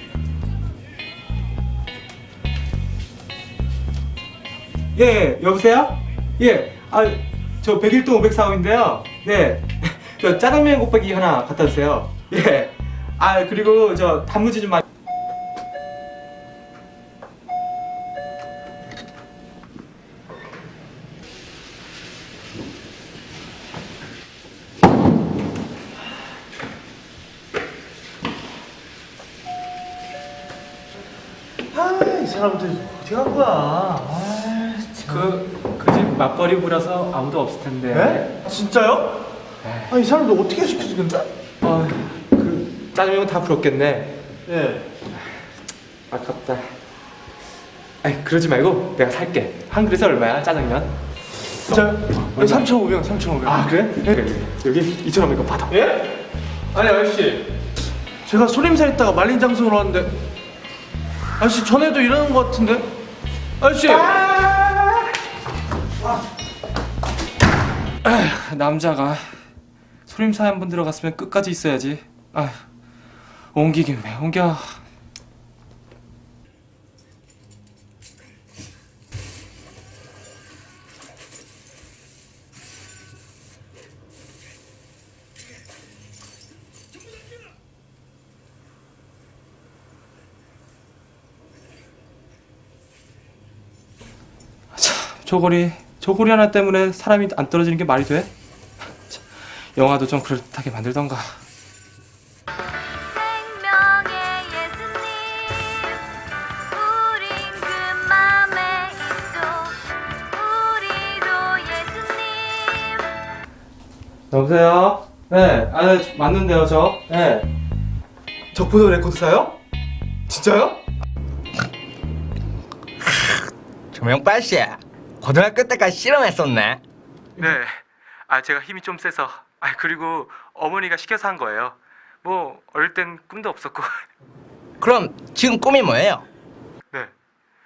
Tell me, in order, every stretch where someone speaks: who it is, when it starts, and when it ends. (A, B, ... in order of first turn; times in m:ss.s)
0:04.9-0:14.8 A
0:31.7-0:35.2 B
0:33.5-0:33.9 A
0:35.0-0:38.3 A
0:37.9-0:39.1 B
0:39.6-0:39.9 A
0:39.9-0:41.2 B
0:41.6-0:44.1 A
0:44.5-0:44.8 B
0:46.1-0:46.7 A
0:48.0-0:50.9 A
0:51.6-0:52.7 A
0:51.7-0:53.9 B
0:53.4-0:55.8 A
0:55.7-0:56.0 B
0:56.7-0:57.4 B
0:58.2-1:00.1 B
1:01.4-1:02.8 B
1:03.6-1:04.1 B
1:08.0-1:09.3 A
1:10.1-1:12.6 A
1:13.5-1:14.8 A
1:34.7-1:38.3 A
1:39.8-1:41.4 A
1:43.4-1:45.6 C
1:46.8-1:49.7 C
1:50.4-1:52.7 C
1:54.3-1:57.4 A
1:58.5-1:59.5 A
2:00.3-2:00.8 A
2:03.0-2:03.4 D
2:03.9-2:06.8 D
2:07.4-2:14.0 A
2:14.8-2:16.2 D